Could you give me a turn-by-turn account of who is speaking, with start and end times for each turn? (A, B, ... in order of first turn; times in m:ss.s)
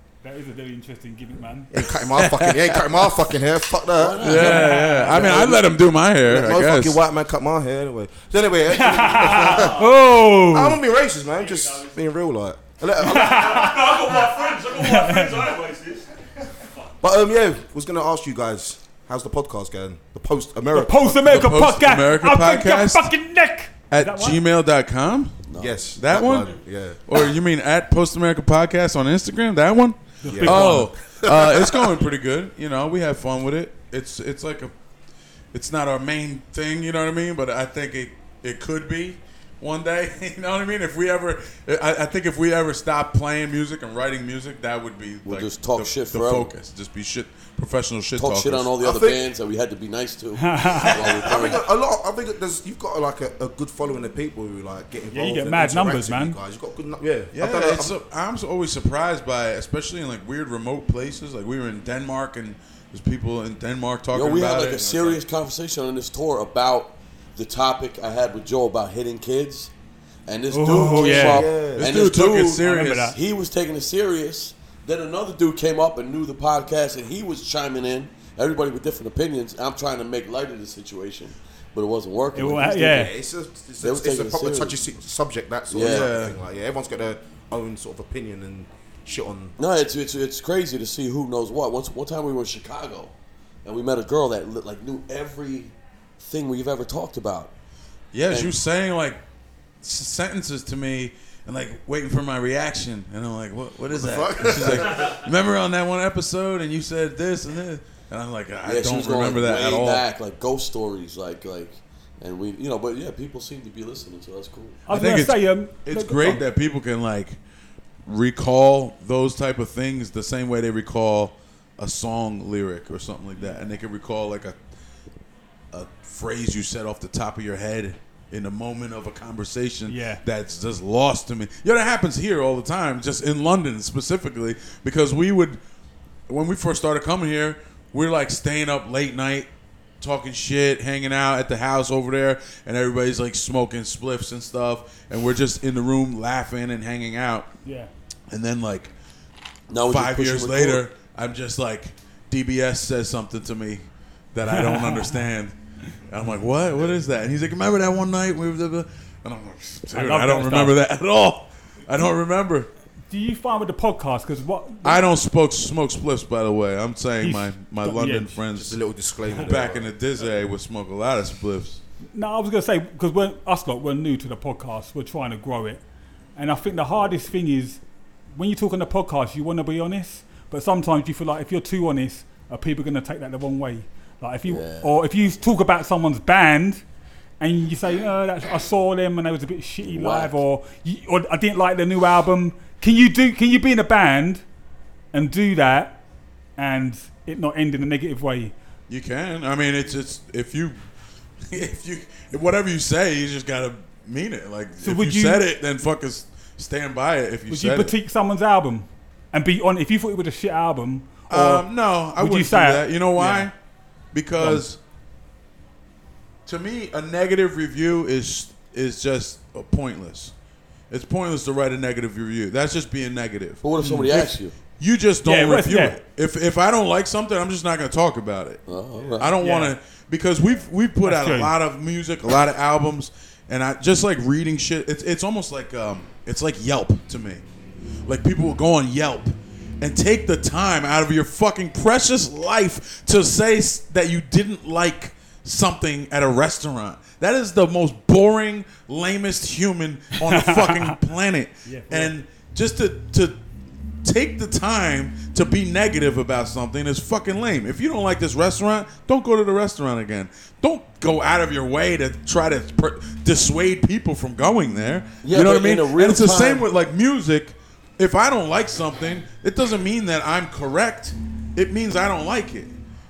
0:00.2-0:01.7 A
0:01.7-0:04.6 B
0:02.0-0:02.8 C
0:04.0-0:05.8 D
0:04.2-0:07.0 C
0:04.4-0:05.3 A
0:05.1-0:13.9 B
0:08.7-0:10.8 A
0:11.3-0:12.0 E
0:13.0-0:15.4 A
0:13.1-0:16.9 E
0:17.0-0:21.4 B
0:20.7-0:24.4 A
0:21.2-0:23.1 C
0:23.9-0:34.7 C
0:25.5-0:25.9 D
0:25.6-0:27.0 B
0:30.2-0:30.9 A
0:30.3-0:32.0 B
0:35.5-0:48.8 C
0:45.2-0:46.5 D
0:48.2-0:51.7 D
0:48.8-0:49.3 B
0:50.4-0:51.0 A
0:50.9-0:57.9 B
0:55.1-0:56.4 A
0:57.3-1:04.9 C
1:04.1-1:09.7 D
1:04.6-1:05.2 B
1:10.3-1:23.1 D
1:10.5-1:11.5 A
1:10.7-1:12.0 B
1:11.8-1:13.2 C
1:12.6-1:13.2 A
1:22.4-1:23.2 A
1:22.7-1:29.6 B
1:23.8-1:24.8 D
1:25.7-1:26.1 D
1:25.8-1:26.4 C
1:29.6-1:33.1 D
1:33.6-1:37.5 D
1:38.1-1:39.2 C
1:38.2-1:38.5 D
1:39.8-1:50.0 C
1:43.9-1:45.1 B
1:48.6-1:54.8 D
1:54.9-1:56.4 A
1:54.9-1:57.4 C
1:58.1-2:04.6 C
2:05.7-2:15.6 C
2:09.9-2:10.2 A
2:16.3-2:19.5 C
2:20.0-2:27.5 C
2:27.6-2:27.9 A
2:28.3-2:28.9 C
2:29.7-2:30.8 D
2:29.8-2:35.5 C
2:34.5-2:35.2 A
2:36.1-2:42.7 C
2:39.9-2:40.8 A
2:43.1-2:45.1 A
2:44.8-2:48.8 C
2:47.2-2:48.4 A
2:48.5-2:49.9 B
2:49.3-2:51.8 C
2:52.1-2:55.8 A
2:56.4-2:57.8 A
2:58.4-3:06.8 A
3:04.5-3:04.9 D
3:07.4-3:14.4 A
3:09.8-3:10.4 D
3:15.1-3:16.0 A
3:16.6-3:18.5 A
3:18.9-3:20.8 C
3:21.5-3:28.0 C
3:24.8-3:25.4 A
3:27.5-3:33.5 A
3:31.3-3:33.5 C
3:34.1-3:34.8 C
3:36.5-3:40.3 C
3:40.9-3:48.6 C
3:43.6-3:44.6 D
3:45.2-3:46.0 A
3:48.7-3:49.4 D
3:49.2-3:57.4 C
3:49.4-3:49.8 A
3:51.0-3:51.6 A
3:58.1-4:13.4 C
4:10.2-4:11.0 A
4:11.6-4:12.1 A
4:14.0-4:32.8 C
4:25.2-4:26.7 D